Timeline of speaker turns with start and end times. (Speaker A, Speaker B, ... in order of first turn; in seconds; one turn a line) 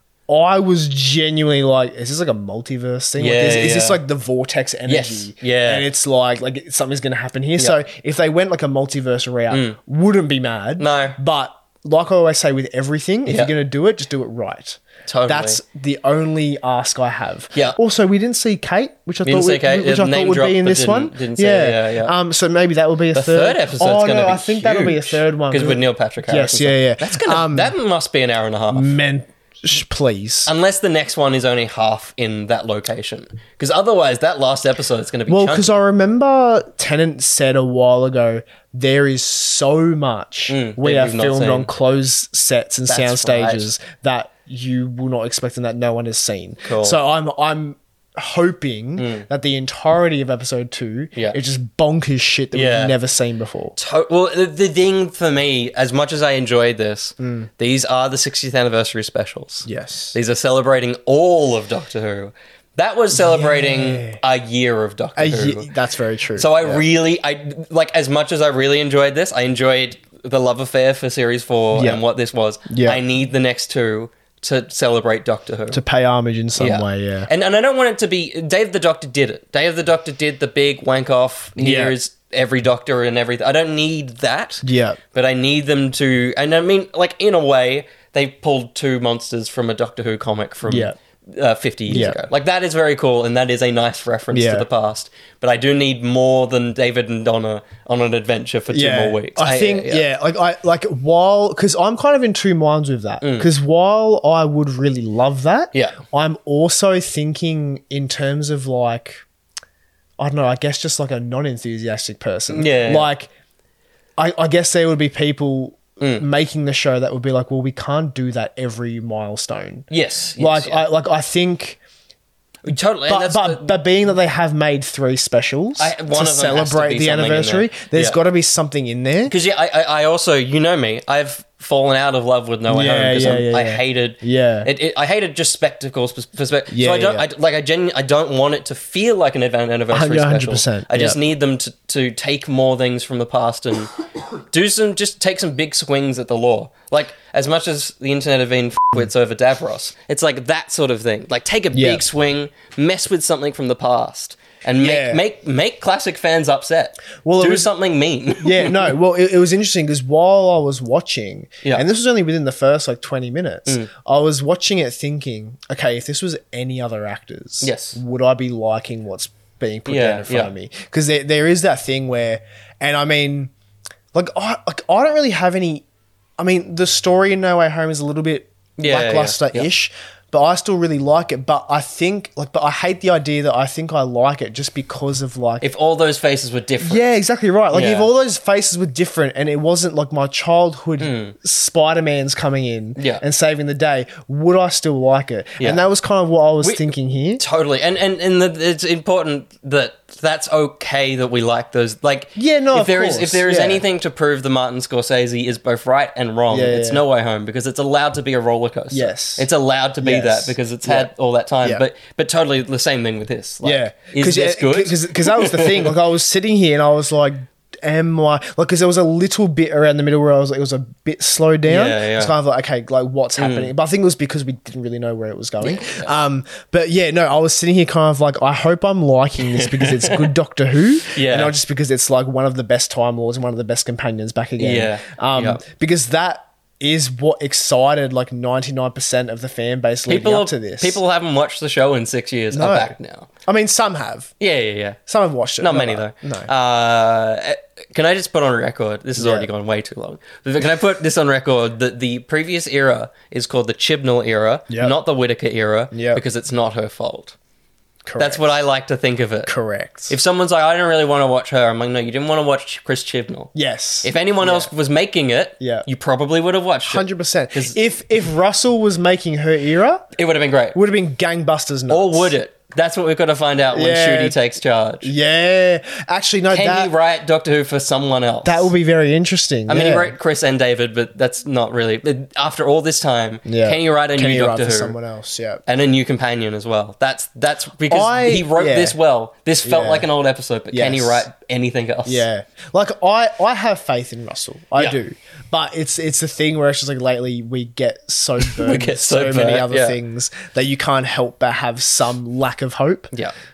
Speaker A: 0.3-27.7
Speaker B: 3.2-4.0
Speaker B: 4.9-5.9
Speaker B: 9.5-9.8
Speaker B: 10.8-11.2
Speaker B: 13.3-13.5
Speaker B: 15.1-15.6
Speaker B: 19.2-22.1
Speaker B: 23.1-28.9
Speaker A: 28.7-30.5
Speaker B: 30.5-35.8
Speaker A: 35.3-53.8
Speaker B: 40.5-41.7
Speaker B: 42.9-43.7
Speaker B: 46.6-47.0
Speaker B: 49.0-49.3
Speaker B: 52.5-53.0
Speaker B: 53.8-65.7
Speaker A: 57.2-57.5
Speaker A: 59.7-60.2
Speaker A: 63.1-64.2
Speaker A: 65.2-66.8
Speaker B: 66.3-75.8
Speaker A: 71.7-72.0
Speaker A: 72.7-73.0
Speaker A: 75.7-77.3
Speaker B: 76.6-100.0
Speaker A: 81.6-81.9
Speaker A: 84.6-85.0
Speaker A: 90.7-91.0
Speaker A: 91.9-92.2
Speaker A: 94.3-94.7
Speaker A: 98.7-109.2
Speaker B: 103.2-103.5
Speaker B: 105.7-106.0
Speaker A: 110.2-113.3
Speaker B: 112.5-113.1
Speaker A: 114.2-119.9
Speaker B: 116.0-116.2
Speaker B: 119.9-120.8
Speaker A: 120.4-121.8
Speaker B: 122.6-123.8
Speaker A: 123.1-129.3
Speaker B: 125.8-128.2
Speaker B: 129.3-143.9
Speaker A: 132.7-134.7
Speaker A: 136.7-137.3
Speaker A: 139.9-141.2
Speaker B: 144.5-158.9
Speaker A: 151.7-152.0
Speaker A: 154.8-155.2
Speaker A: 157.2-157.7
Speaker A: 158.4-173.5
Speaker B: 167.6-168.0
Speaker B: 169.9-170.5
Speaker A: 174.1-175.9
Speaker A: 176.4-185.7
Speaker B: 178.8-179.7
Speaker B: 185.6-187.0
Speaker A: 186.8-197.4
Speaker B: 187.7-188.1
Speaker B: 191.0-191.3
Speaker B: 193.0-193.2
Speaker B: 195.6-195.8
Speaker B: 196.6-216.0
Speaker A: 202.4-203.8
Speaker A: 206.5-207.0
Speaker A: 208.9-209.5
Speaker A: 210.0-211.1
Speaker A: 213.6-241.0
Speaker B: 221.7-222.3
Speaker B: 223.4-223.7
Speaker B: 225.6-226.1
Speaker B: 229.4-230.3
Speaker B: 231.1-231.6
Speaker B: 234.6-235.6
Speaker B: 240.1-243.3
Speaker A: 242.5-244.3
Speaker B: 244.4-245.0
Speaker A: 245.1-246.5
Speaker B: 245.6-257.4
Speaker A: 249.2-249.5
Speaker A: 254.7-254.9
Speaker A: 255.9-256.2
Speaker A: 258.1-258.4
Speaker B: 258.2-259.5
Speaker A: 259.5-260.1
Speaker B: 260.1-263.5
Speaker A: 263.6-264.7
Speaker B: 264.0-267.8
Speaker A: 265.6-265.9
Speaker A: 266.9-270.1
Speaker B: 270.2-270.8
Speaker A: 270.7-272.4
Speaker B: 271.9-275.1
Speaker A: 273.7-274.4
Speaker A: 275.0-276.9
Speaker B: 276.5-278.7
Speaker A: 278.4-280.1
Speaker B: 279.7-284.9
Speaker A: 283.5-285.6
Speaker B: 285.7-292.3
Speaker A: 287.9-289.0
Speaker A: 289.6-290.1
Speaker A: 290.7-291.3
Speaker A: 292.1-303.1
Speaker B: 298.4-300.0